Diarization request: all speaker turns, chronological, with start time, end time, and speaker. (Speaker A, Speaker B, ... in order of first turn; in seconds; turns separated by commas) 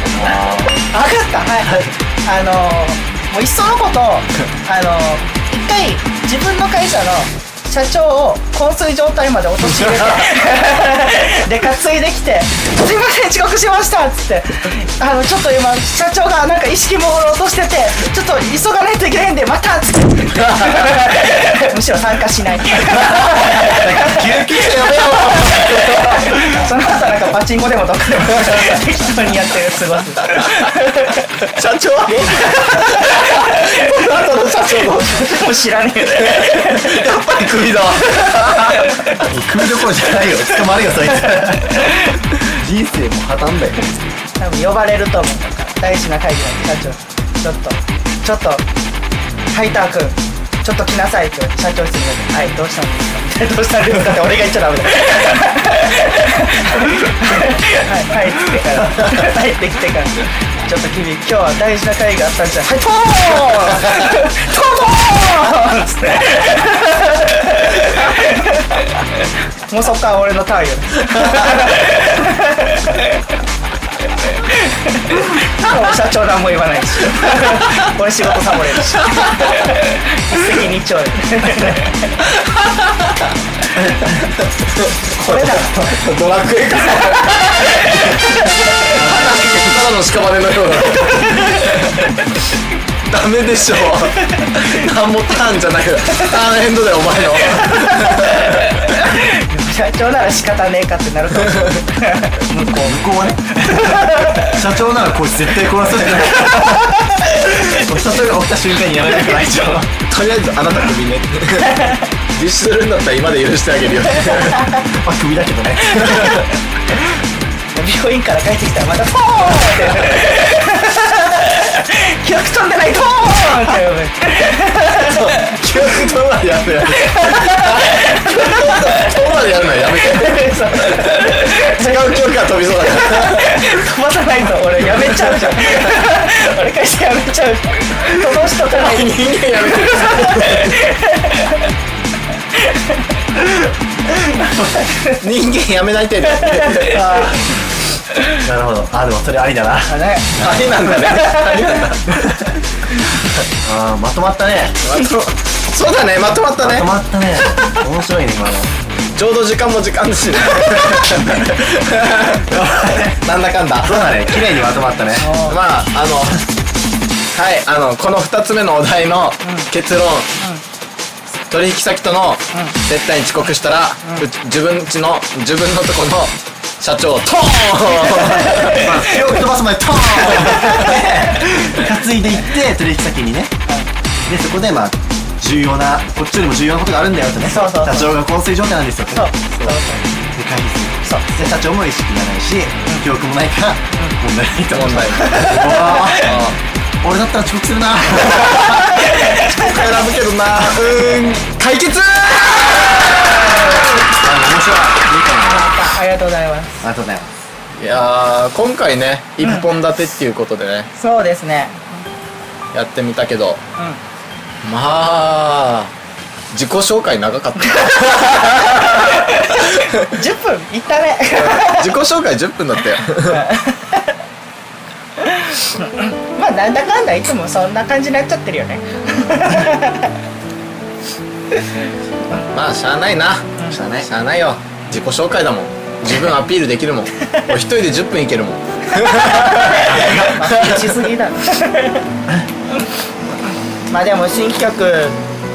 Speaker A: 0.1-0.8, Speaker B: 0.9-31.3, Speaker A: 23.2-26.3, Speaker C: 31.5-35.2, Speaker B: 32.1-34.1, Speaker B: 34.7-37.1, Speaker C: 36.3-39.1, Speaker B: 38.2-38.8, Speaker A: 39.2-44.0, Speaker B: 44.4-48.6, Speaker B: 49.5-69.0, Speaker C: 63.3-63.6, Speaker B: 69.7-73.1, Speaker B: 74.4-82.2, Speaker A: 83.8-84.3, Speaker C: 84.6-92.1, Speaker B: 85.2-85.7, Speaker A: 88.9-89.8, Speaker B: 91.1-91.6, Speaker C: 93.0-98.9, Speaker B: 97.8-98.2, Speaker B: 98.8-103.0, Speaker A: 102.8-110.0, Speaker B: 103.7-104.5, Speaker C: 110.1-114.7, Speaker A: 114.7-116.5, Speaker C: 116.0-116.4, Speaker B: 117.7-125.3, Speaker C: 125.1-133.8, Speaker B: 126.9-129.1, Speaker B: 130.0-141.6, Speaker C: 135.4-135.8, Speaker C: 138.5-140.8, Speaker B: 142.6-142.9, Speaker C: 145.1-147.4, Speaker B: 146.3-147.4, Speaker A: 148.4-151.1, Speaker B: 149.9-150.5, Speaker C: 150.4-152.2, Speaker B: 151.0-151.6, Speaker A: 153.6-154.8, Speaker C: 154.8-156.9, Speaker A: 156.6-158.7, Speaker C: 159.2-164.3, Speaker A: 162.5-163.2, Speaker A: 163.8-165.3, Speaker B: 165.2-165.6, Speaker C: 165.3-166.5, Speaker C: 167.3-170.3, Speaker B: 169.4-169.7, Speaker C: 171.5-178.9, Speaker B: 178.4-178.9, Speaker A: 178.6-183.5, Speaker A: 184.3-189.3, Speaker B: 187.4-188.2, Speaker B: 189.1-190.0, Speaker A: 190.4-196.5, Speaker B: 191.1-191.3, Speaker C: 194.7-196.6, Speaker B: 195.2-196.3, Speaker A: 197.0-198.9, Speaker C: 198.2-203.8, Speaker B: 198.9-199.9, Speaker A: 203.7-205.7, Speaker B: 205.5-206.8, Speaker A: 206.8-207.3, Speaker C: 207.8-210.9, Speaker B: 211.0-212.0, Speaker C: 212.7-213.6, Speaker C: 214.6-215.9, Speaker C: 216.5-220.0, Speaker B: 217.8-221.9, Speaker C: 221.3-223.4, Speaker B: 223.2-224.2, Speaker B: 225.2-230.1, Speaker C: 232.5-241.0, Speaker A: 233.7-234.1, Speaker B: 239.5-242.0, Speaker A: 239.8-240.4, Speaker B: 243.9-245.2